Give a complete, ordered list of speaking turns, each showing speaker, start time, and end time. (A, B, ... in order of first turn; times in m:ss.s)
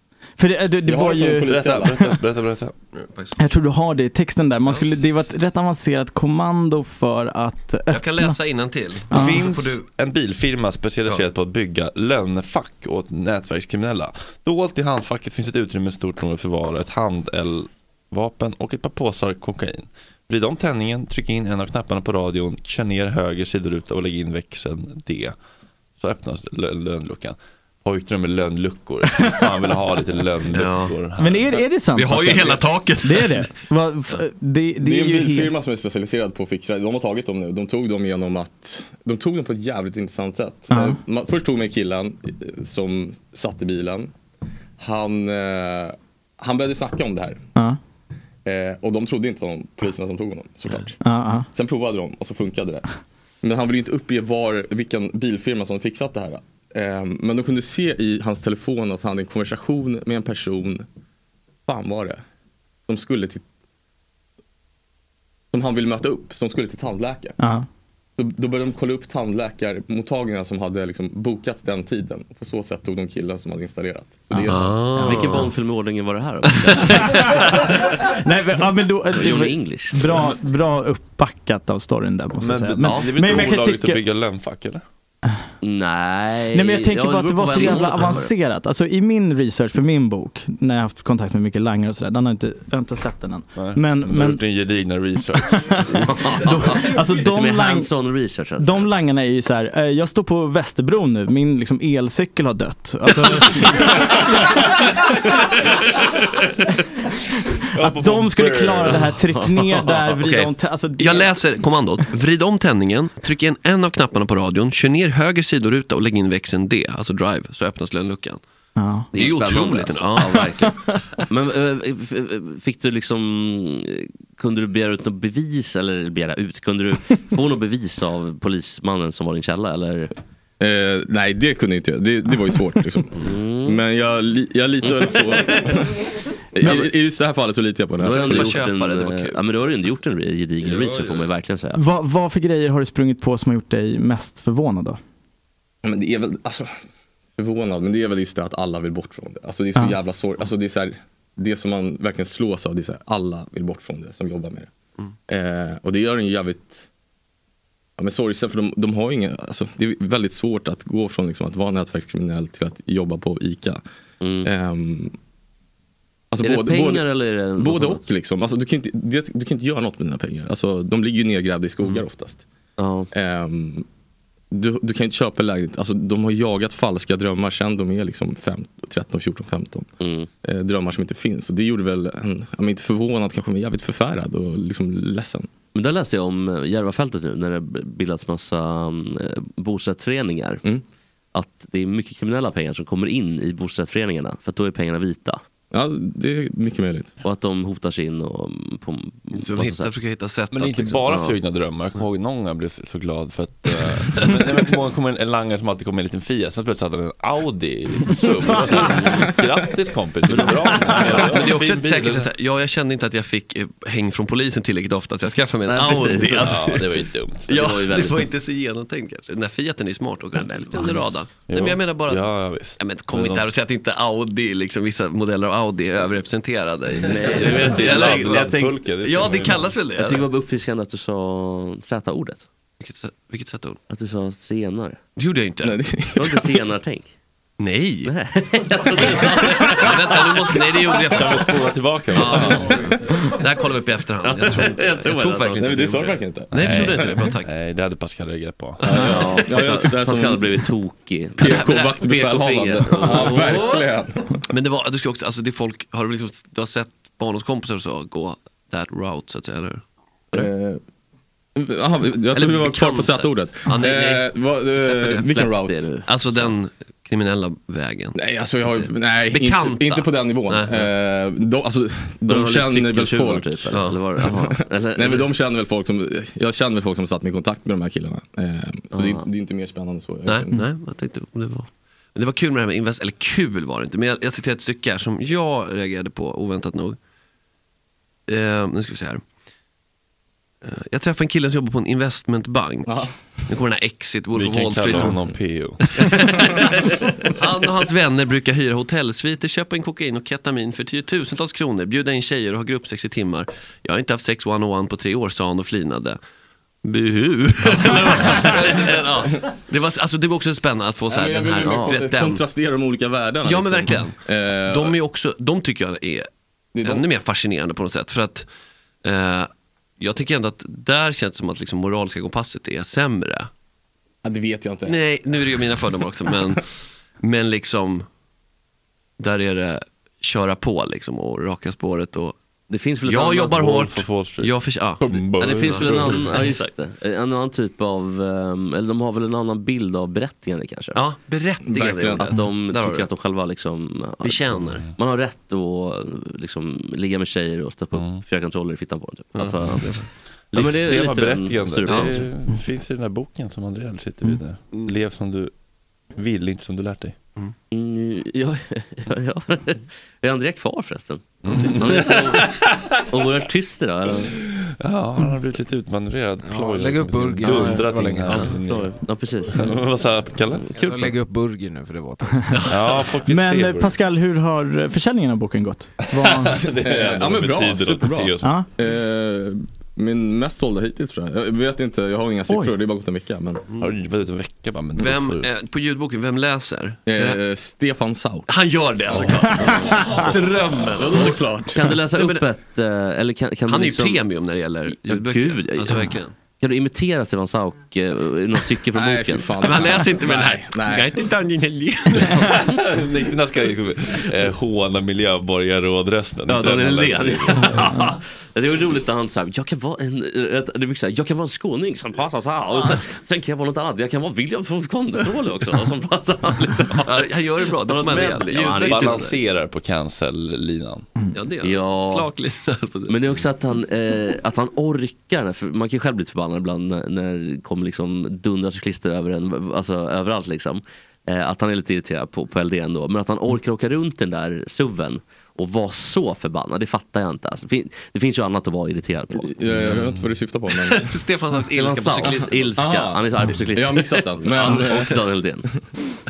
0:00.4-0:01.5 A
0:00.8-0:02.0 B
0:01.4-0:02.7 C
0:03.0-0:03.4 D
0:03.4-0:08.4 A
0:07.9-0:09.8 D
0:09.1-0:09.6 A
0:09.1-0:25.3 C
0:26.0-0:31.6 C
0:29.0-0:29.8 A
0:30.5-0:30.9 D
0:31.2-0:35.6 A
0:31.9-0:33.5 D
0:34.8-0:44.1 B
0:40.7-0:41.0 A
0:44.8-0:47.4 B
0:48.4-0:51.0 B
0:51.0-0:51.5 A
0:51.5-0:52.8 B
0:53.4-1:00.8 B
1:01.7-1:02.2 B
1:02.8-1:03.4 B
1:05.5-1:07.4 B
1:07.4-1:07.7 A
1:08.2-1:15.0 B
1:14.3-1:15.4 A
1:14.5-1:15.5 D
1:15.0-1:17.3 E
1:16.5-1:17.1 D
1:17.2-1:24.0 A
1:19.1-1:20.3 E
1:22.4-1:24.8 C
1:22.8-1:23.5 E
1:25.6-1:28.3 E
1:26.5-1:34.4 A
1:33.6-1:36.0 C
1:35.3-1:37.9 A
1:36.1-1:38.9 E
1:38.6-1:45.0 A
1:47.7-1:49.2 C
1:47.8-1:51.3 A
1:50.1-1:58.4 D
1:58.8-1:59.1 A
1:59.1-2:00.7 E
1:59.1-2:00.4 D
2:01.3-2:10.1 E
2:10.6-2:13.1 B
2:13.2-2:13.8 E
2:13.6-2:15.9 B
2:14.8-2:15.7 E
2:16.5-2:18.6 B
2:16.6-2:16.9 E
2:18.0-2:21.8 E
2:18.0-2:19.4 D
2:21.7-2:25.0 A
2:25.8-2:26.8 B
2:27.4-2:34.7 B
2:35.3-2:36.9 B
2:38.0-2:43.8 B
2:44.2-2:44.5 E
2:44.4-2:45.1 B
2:46.3-2:52.4 B
2:46.4-2:48.1 E
2:52.8-2:53.1 E
2:53.1-2:53.8 B
2:54.5-2:59.9 B
3:00.0-3:00.3 E
3:00.4-3:05.5 B
3:05.7-3:10.6 E
3:11.3-3:15.4 E
3:15.7-3:17.1 B
3:17.2-3:19.9 E
3:19.3-3:21.0 D
3:20.5-3:32.3 C
3:21.1-3:21.4 E
3:28.8-3:29.2 E
3:30.3-3:31.4 E
3:31.0-3:36.9 D
3:35.7-3:36.8 E
3:36.2-3:37.5 C
3:37.5-3:50.3 D
3:37.5-3:38.3 E
3:40.4-3:41.2 E
3:41.4-3:43.5 C
3:47.0-3:48.6 E
3:47.2-3:49.7 C
3:50.0-3:52.4 E
3:52.8-3:53.8 D
3:53.9-3:55.0 E
3:55.2-3:55.8 D
3:55.6-3:56.4 B
3:56.2-3:57.1 E
3:57.6-3:58.1 D
3:58.0-4:01.5 E
3:59.1-4:01.5 D
4:01.1-4:03.0 C
4:02.1-4:07.5 D
4:02.1-4:03.2 E
4:04.2-4:06.2 E
4:05.6-4:06.8 B
4:06.5-4:08.8 C
4:08.8-4:10.6 B
4:08.9-4:13.8 E
4:11.4-4:14.4 B
4:11.4-4:11.8 D
4:13.0-4:13.6 D
4:14.5-4:19.8 D
4:20.3-4:20.8 B
4:21.6-4:25.9 B
4:22.3-4:25.3 D
4:25.2-4:26.1 E
4:26.0-4:28.1 D
4:28.2-4:40.6 B
4:29.3-4:30.8 D
4:32.3-4:35.3 E
4:33.7-4:34.0 D
4:38.9-4:39.2 E
4:40.2-4:47.0 D
4:48.3-4:49.2 D
4:50.6-4:55.2 D
4:52.8-4:53.1 B
4:54.3-4:56.4 C
4:55.8-5:06.2 D
5:06.8-5:12.4 D
5:08.2-5:08.8 B
5:11.1-5:15.0 B
5:13.4-5:16.3 D
5:16.7-5:17.1 B
5:16.8-5:18.4 D
5:19.0-5:19.5 D
5:20.0-5:23.5 D
5:24.2-5:25.6 B
5:24.8-5:26.7 D
5:27.2-5:28.0 D
5:29.2-5:32.4 D
5:32.7-5:33.8 E
5:33.0-5:36.7 D
5:33.6-5:36.5 C
5:35.4-5:41.0 E
5:41.0-5:43.0 D
5:41.6-5:42.4 B
5:42.2-5:52.3 E
5:44.2-5:44.8 D
5:47.9-5:48.2 C
5:49.3-5:50.1 D
5:50.5-5:55.5 C
5:51.9-5:52.2 D
5:56.1-5:57.2 C
5:57.7-6:04.3 E
6:01.4-6:03.1 C
6:04.4-6:08.9 C
6:06.4-6:08.6 F
6:07.4-6:09.8 E
6:09.5-6:11.0 C
6:10.7-6:12.6 F
6:10.8-6:11.1 E
6:12.5-6:13.0 D
6:12.7-6:14.0 C
6:13.2-6:16.6 A
6:16.0-6:18.6 C
6:16.6-6:23.6 B
6:18.4-6:18.7 A
6:22.5-6:22.8 A
6:23.8-6:25.5 C
6:25.0-6:27.4 D
6:27.0-6:28.5 B
6:28.5-6:31.4 D
6:29.1-6:29.6 C
6:29.5-6:30.3 A
6:30.9-6:31.9 B
6:31.2-6:34.2 E
6:32.0-6:32.5 D
6:33.7-6:36.3 D
6:34.9-6:40.0 E
6:38.9-6:41.2 B
6:39.6-6:42.6 D
6:42.3-6:47.8 C
6:42.4-6:42.8 E
6:46.5-6:59.4 E
6:57.0-6:59.3 D
6:58.5-7:01.1 C
7:01.3-7:03.4 D
7:01.6-7:02.3 E
7:03.1-7:19.6 E
7:19.4-7:21.2 B
7:20.9-7:22.8 D
7:21.7-7:25.7 E
7:22.2-7:25.2 B